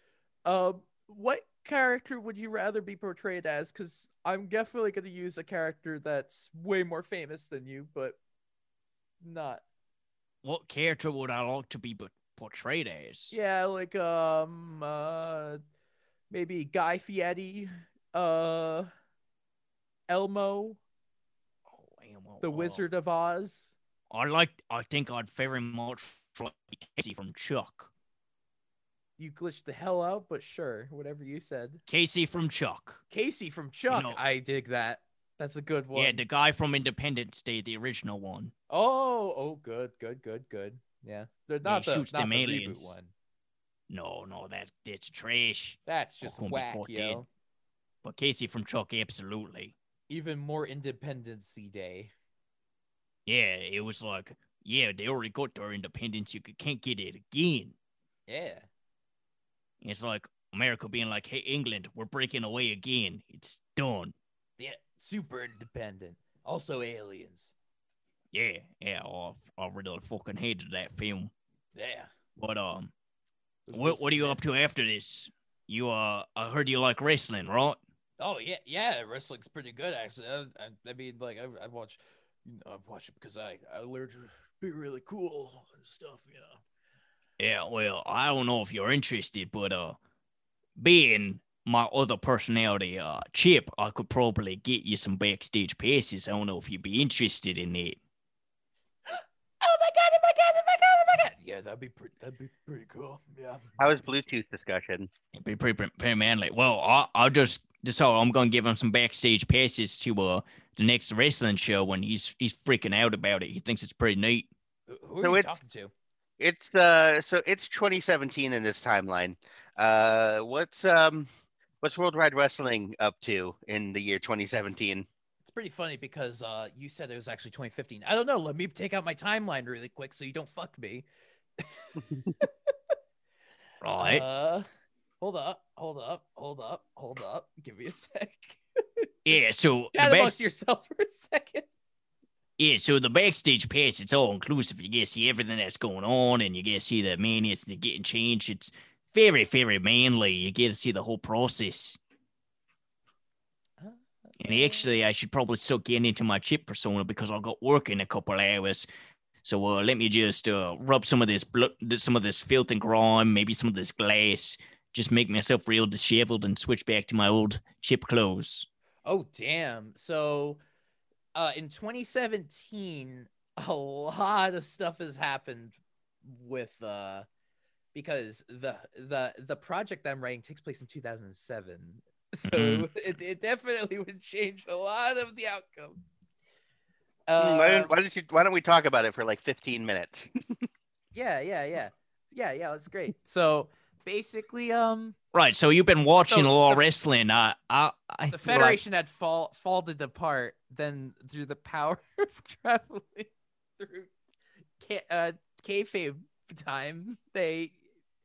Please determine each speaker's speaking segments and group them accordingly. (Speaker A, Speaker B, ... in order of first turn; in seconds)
Speaker A: 0.5-8.2, 9.2-9.6, 13.3-15.6, 16.3-18.9, 20.1-20.8, 22.4-23.7, 29.2-31.8, 33.1-36.2, 38.7-43.1, 45.9-47.3, 50.1-52.1, 58.3-58.7, 64.6-67.5, 71.7-72.1, 73.7-74.4, 78.2-86.6, 99.1-103.8, 114.9-115.9, 125.5-131.1, 131.6-132.5, 134.0-134.7, 135.2-139.1, 139.9-141.7, 153.8-154.8, 169.1-170.6, 171.3-177.3, 177.9-186.0, 187.3-187.9, 191.1-195.2, 196.3-196.8, 198.3-204.1, 204.8-207.8
Speaker B: 10.4-13.3, 21.7-22.8, 24.1-27.9, 31.9-33.0, 33.9-34.2, 35.9-38.5, 41.6-42.9, 43.9-47.2, 48.0-49.7, 53.3-57.7, 59.8-64.1, 68.3-71.3, 72.4-72.9, 73.7-77.8, 87.4-90.0, 90.8-98.0, 105.3-114.5, 133.8-134.2, 139.2-140.4, 142.6-152.0, 154.4-158.9, 159.4-168.7, 182.5-182.9, 195.3-198.8
Speaker C: 103.8-105.1, 115.2-115.6, 116.4-121.3, 121.8-125.1, 187.4-190.3